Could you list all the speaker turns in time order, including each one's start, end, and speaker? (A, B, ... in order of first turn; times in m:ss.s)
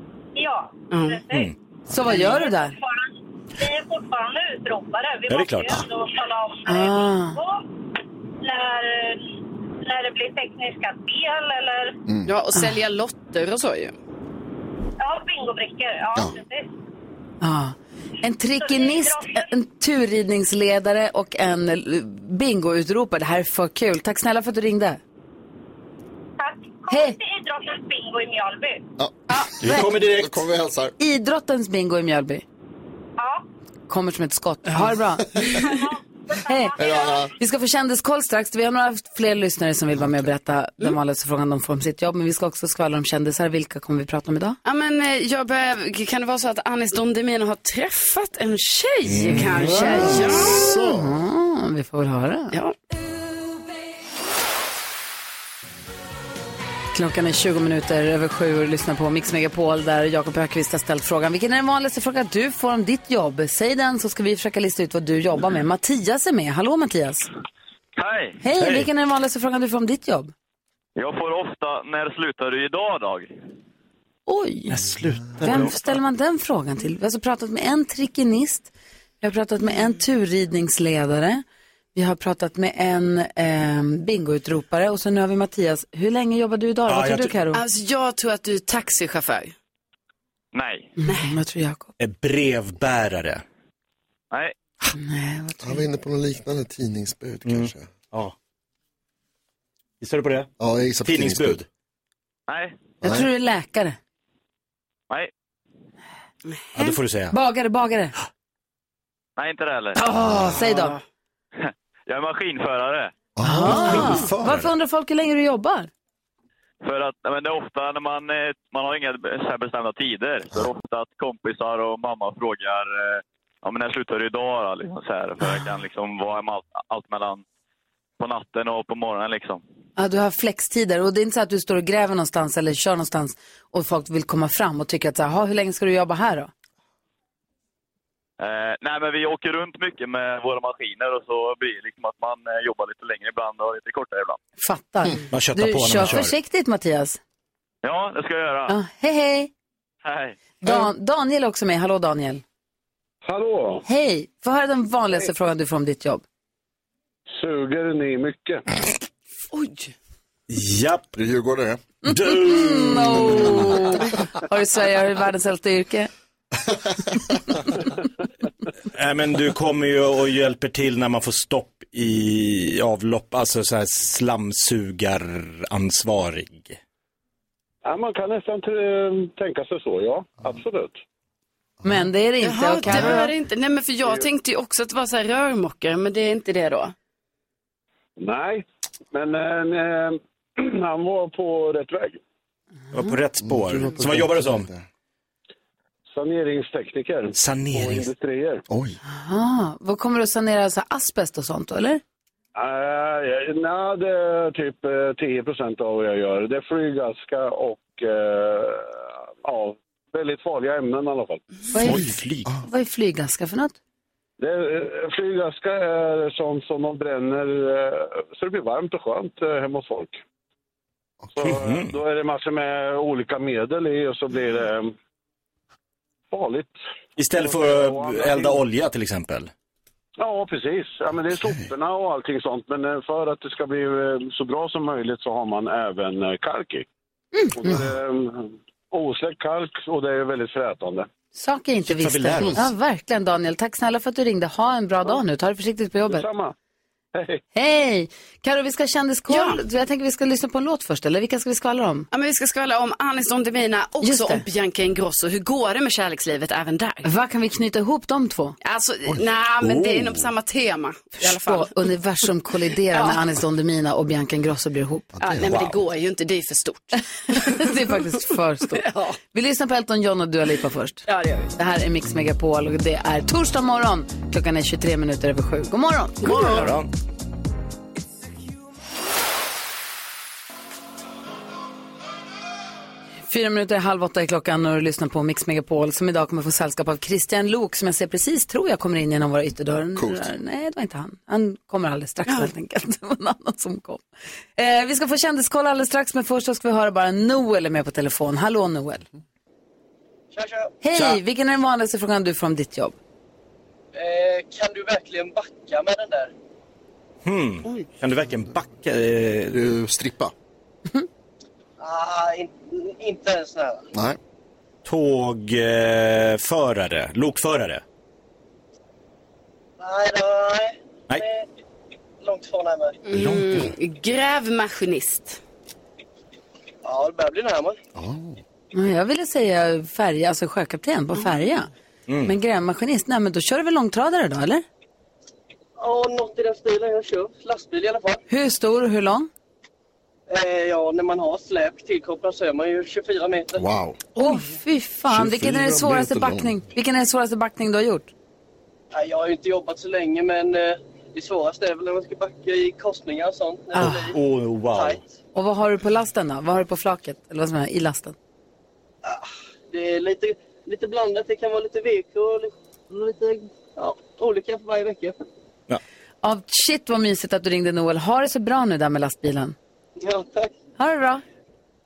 0:00.4-0:01.5 A
0:00.9-0:01.2 B
0:01.3-0:01.5 C
0:01.9-0:02.8 D
0:02.1-0:07.6 A
0:05.3-0:05.8 C
0:06.7-0:07.4 D
0:08.4-0:12.0 A
0:12.2-0:13.9 B
0:15.0-0:16.7 A
0:17.4-0:25.0 D
0:18.6-0:19.5 A
0:26.4-0:28.8 A
0:26.9-0:27.2 D
0:29.0-0:30.9 E
0:29.3-0:29.9 D
0:29.6-0:30.4 C
0:31.0-0:32.4 D
0:33.2-0:33.4 A
0:33.9-0:35.4 D
0:35.4-0:37.3 A
0:36.4-0:36.8 D
0:36.8-0:37.3 E
0:37.3-0:44.6 D
0:44.6-0:50.7 B
0:49.1-0:50.1 C
0:49.3-0:52.6 D
0:49.5-0:51.2 E
0:56.9-1:07.3 D
1:08.0-1:08.4 F
1:08.4-1:10.3 D
1:08.6-1:08.9 C
1:11.0-1:13.3 F
1:14.3-1:14.8 D
1:14.7-1:15.7 C
1:15.4-1:18.7 D
1:19.2-1:21.4 D
1:21.9-1:27.6 D
1:26.9-1:27.4 C
1:27.5-1:29.5 B
1:30.5-1:30.9 F
1:31.0-1:31.9 D
1:31.0-1:31.3 B
1:32.0-1:33.4 C
1:34.9-1:35.9 D
1:35.6-1:37.9 E
1:37.4-1:38.3 C
1:40.0-1:40.5 C
1:40.6-1:41.6 E
1:41.0-1:41.6 C
1:42.5-1:42.8 F
1:43.0-1:43.3 E
1:43.0-1:44.0 D
1:46.7-1:47.3 C
1:47.3-1:48.2 D
1:49.4-1:50.0 F
1:50.0-1:51.0 D
1:50.1-1:50.6 E
1:50.7-1:50.9 B
1:51.6-1:53.1 F
1:53.4-1:54.6 E
1:53.4-1:55.9 D
1:53.9-1:54.7 C
1:56.8-2:07.4 F
2:05.4-2:05.7 D
2:08.2-2:09.6 F
2:10.0-2:16.5 D
2:18.4-2:24.4 F
2:24.6-2:27.2 D
2:25.3-2:26.3 C
2:27.8-2:28.7 F
2:28.7-2:29.5 D
2:30.0-2:30.4 F
2:30.6-2:32.4 D
2:33.2-2:33.8 G
2:33.8-2:36.2 D
2:37.3-2:38.6 G
2:39.5-2:39.9 B
2:40.5-2:41.1 C
2:41.2-2:41.8 E
2:42.0-2:46.1 D
2:42.1-2:43.8 C
2:48.9-2:56.8 C
2:57.8-3:01.0 G
3:01.8-3:03.3 D
3:02.4-3:06.9 B
3:08.2-3:12.2 G
3:12.9-3:14.7 C
3:13.4-3:14.8 E
3:16.1-3:18.6 G
3:17.3-3:18.1 C
3:18.7-3:19.0 E
3:19.1-3:22.0 D
3:22.5-3:31.4 G
3:31.7-3:32.1 D
3:31.8-3:32.5 C
3:32.6-3:33.8 D
3:34.4-3:40.2 G
3:41.3-3:44.9 G
3:41.4-3:42.0 C
3:46.3-3:46.8 G
3:47.2-3:49.5 C
3:47.3-3:48.6 G
3:50.2-3:56.9 G
3:57.4-3:57.8 D
3:57.5-4:01.1 G
4:01.3-4:06.2 D
4:01.8-4:02.6 C
4:06.1-4:06.5 G
4:07.1-4:07.4 G
4:07.5-4:12.1 D
4:09.3-4:09.6 B
4:12.1-4:17.1 B
4:14.0-4:14.4 D
4:17.0-4:18.6 D
4:18.6-4:21.8 B
4:19.6-4:20.2 C
4:21.2-4:25.1 D
4:22.9-4:23.2 B
4:25.1-4:25.6 E
4:25.2-4:28.1 B
4:27.3-4:36.7 D
4:28.7-4:29.2 B
4:31.1-4:31.5 B
4:36.2-4:36.9 C
4:43.3-4:54.0 D
4:50.0-4:50.3 E
4:54.6-4:59.0 D
5:00.3-5:00.7 H
5:00.8-5:03.0 D
5:03.9-5:06.3 H
5:07.2-5:09.6 C
5:09.5-5:10.3 E
5:11.8-5:13.9 H
5:13.9-5:14.2 E
5:14.8-5:17.8 C
5:19.8-5:21.4 H
5:22.2-5:23.0 H
5:23.0-5:25.4 B
5:23.1-5:23.6 C
5:26.8-5:27.8 H
5:27.9-5:28.4 E
5:28.7-5:31.7 D
5:32.1-5:32.4 C
5:32.2-5:34.6 D
5:35.8-5:38.2 H
5:38.3-5:39.3 D
5:40.3-5:43.6 H
5:43.6-5:44.0 E
5:44.2-5:48.1 D
5:45.1-5:46.5 E
5:48.9-5:55.0 H
5:53.8-5:55.0 C
5:55.3-5:58.1 D
5:59.0-6:05.1 H
6:06.2-6:09.5 D
6:10.0-6:10.6 H
6:10.8-6:11.2 D